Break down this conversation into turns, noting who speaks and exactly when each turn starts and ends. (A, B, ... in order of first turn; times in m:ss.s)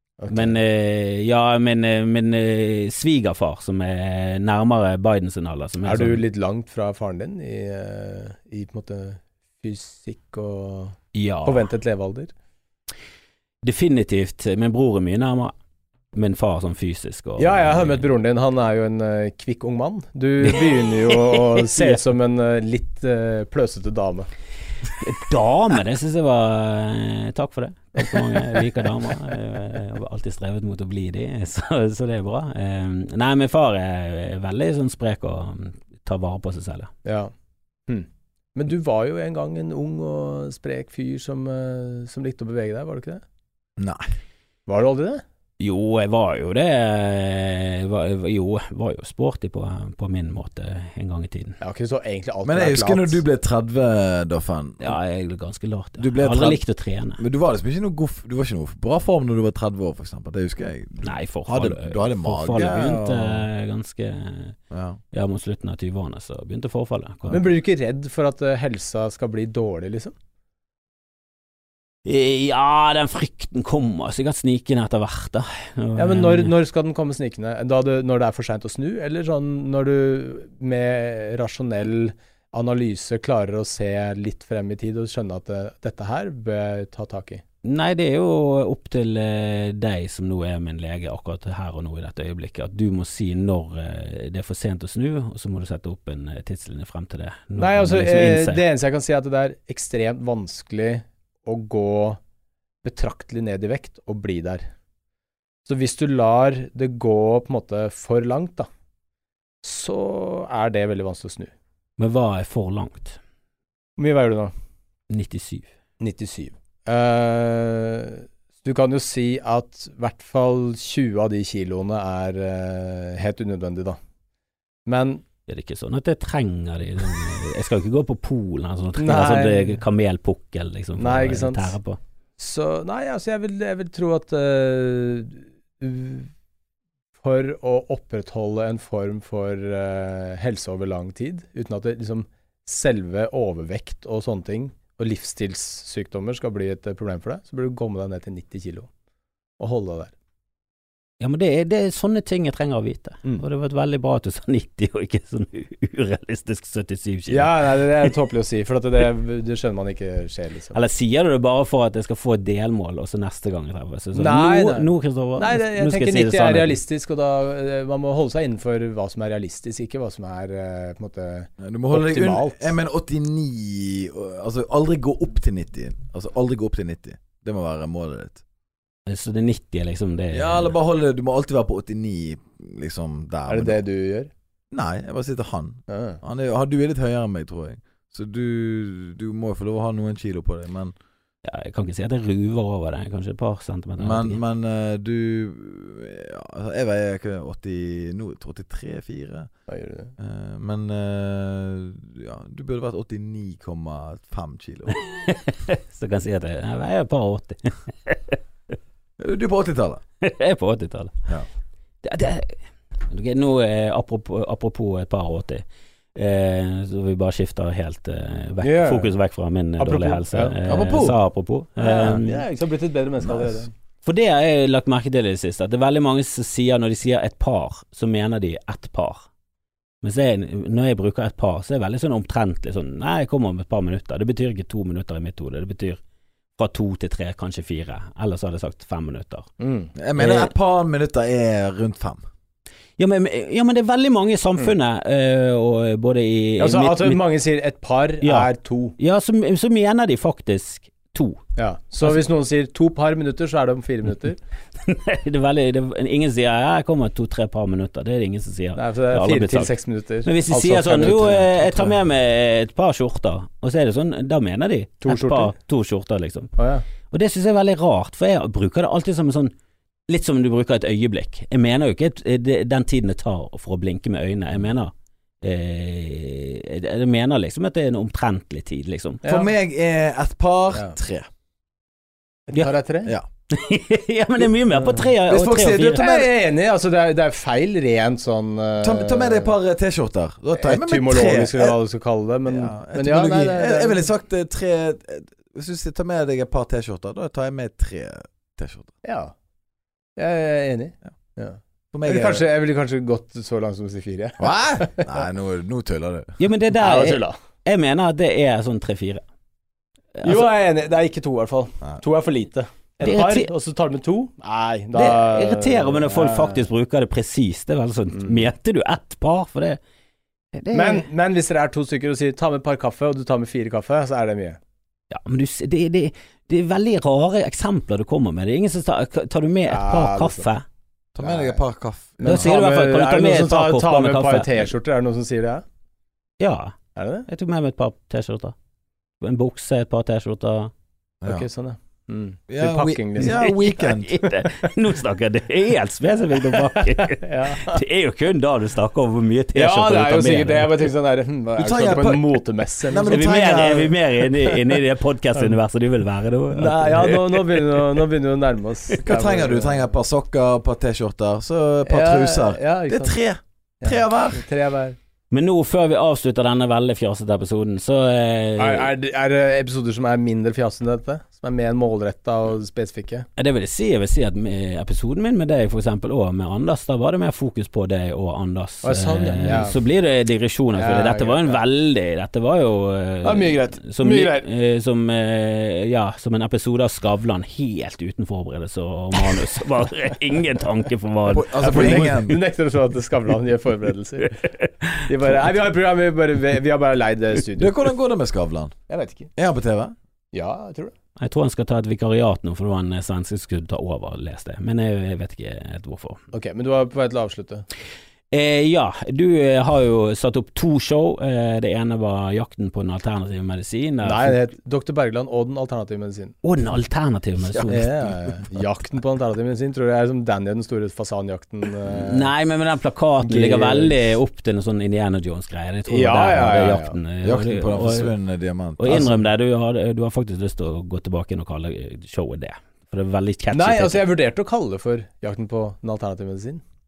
0:00.2-0:00.6 A
0:00.3-0:06.2 B
0:05.8-0:12.3 A
0:11.2-0:11.6 B
0:13.6-0:15.5 B
0:16.1-0:18.1 B
0:17.4-0:24.3 A
0:20.4-0:22.0 B
0:25.0-0:36.9 B
0:28.0-0:28.6 A
0:37.0-0:37.3 A
0:37.9-0:43.2 A
0:43.8-0:44.0 C
0:44.7-0:45.2 A
0:45.6-0:51.6 B
0:51.6-0:53.2 A
0:52.4-0:54.9 C
0:54.8-0:57.2 B
0:56.0-0:56.6 C
0:57.2-1:03.4 C
1:01.0-1:04.6 B
1:04.7-1:05.0 C
1:05.1-1:07.4 B
1:07.3-1:10.1 A
1:12.0-1:16.5 B
1:16.0-1:27.4 A
1:27.6-1:38.6 B
1:37.6-1:42.2 A
1:42.8-1:44.6 A
1:45.6-1:48.7 A
1:49.6-1:51.5 A
1:52.0-1:53.2 B
1:54.0-1:54.5 A
1:55.1-1:55.7 B
1:56.0-2:04.0 A
2:04.9-2:05.2 A
2:05.5-2:12.0 B
2:09.0-2:09.8 A
2:11.0-2:11.7 A
2:12.4-2:16.3 A
2:17.2-2:28.9 A
2:29.6-2:30.1 A
2:31.2-2:38.1 B
2:37.3-2:40.8 A
2:40.7-2:46.8 B
2:44.2-2:52.7 A
2:51.6-2:58.4 C
2:59.1-3:00.7 B
3:00.3-3:03.8 C
3:03.5-3:04.3 A
3:04.7-3:10.9 C
3:05.9-3:06.2 A
3:11.4-3:14.4 B
3:14.0-3:19.5 C
3:19.7-3:20.1 A
3:20.2-3:24.9 C
3:25.0-3:28.4 B
3:29.2-3:30.0 C
3:30.2-3:31.2 B
3:32.0-3:32.6 B
3:33.1-3:35.6 B
3:36.2-3:42.4 B
3:38.6-3:39.1 A
3:39.8-3:40.6 A
3:40.6-3:41.2 C
3:41.8-3:43.7 A
3:44.0-3:49.2 B
3:50.0-3:56.0 B
3:56.6-3:59.5 B
3:59.6-4:00.5 A
4:00.0-4:02.2 C
4:03.0-4:07.2 B
4:06.6-4:09.0 A
4:08.2-4:11.4 B
4:11.6-4:14.4 A
4:14.8-4:19.7 B
4:18.8-4:22.0 A
4:20.2-4:26.5 B
4:25.0-4:25.5 A
4:26.6-4:26.8 A
4:27.1-4:29.5 B
4:30.1-4:39.2 B
4:39.2-4:39.5 A
4:39.3-4:41.3 C
4:42.5-4:43.2 A
4:43.5-4:46.1 B
4:44.8-4:45.1 A
4:45.3-4:46.3 C
4:46.0-4:49.5 A
4:48.8-4:51.8 C
4:50.5-4:54.1 A
4:52.4-4:58.9 C
4:59.0-4:59.3 A
5:00.2-5:05.2 A
5:01.9-5:02.5 C
5:04.4-5:06.4 C
5:06.4-5:09.2 B
5:06.7-5:07.4 A
5:10.2-5:10.4 B
5:10.2-5:16.6 A
5:13.0-5:13.5 B
5:14.9-5:19.8 B
5:18.2-5:18.4 A
5:20.5-5:21.0 B
5:20.7-5:24.6 A
5:25.1-5:30.6 B
5:29.7-5:30.5 A
5:31.2-5:32.5 C
5:31.2-5:31.6 A
5:32.2-5:35.6 A
5:32.2-5:34.6 B
5:36.4-5:36.8 B
5:37.0-5:37.3 A
5:37.3-5:38.6 B
5:39.2-5:40.7 B
5:41.3-5:43.6 A
5:42.5-5:44.2 C
5:43.2-5:50.7 B
5:46.5-5:47.8 A
5:49.6-5:53.3 A
5:51.6-5:52.3 C
5:52.9-5:54.0 C
5:53.1-5:57.7 B
5:56.6-5:59.9 A
5:59.0-6:04.4 C
6:01.9-6:03.2 A
6:03.8-6:05.0 A
6:05.3-6:08.9 B
6:08.6-6:13.3 A
6:13.4-6:32.1 B
6:18.8-6:19.8 A
6:20.7-6:21.6 A
6:23.2-6:24.5 A
6:31.3-6:32.4 C
6:31.6-6:34.4 A
6:35.0-6:37.9 A
6:37.6-6:38.7 C
6:38.9-6:39.3 A
6:39.4-6:39.9 C
6:40.3-6:40.9 A
6:41.2-6:46.2 B
6:46.3-6:47.6 A
6:48.3-6:54.4 B
6:54.0-6:56.4 A
6:56.4-6:58.2 B
6:57.6-7:02.3 A
7:01.8-7:08.1 B
7:03.2-7:04.2 A
7:05.9-7:07.0 A
7:07.2-7:09.2 C
7:08.8-7:14.0 B
7:13.5-7:16.6 A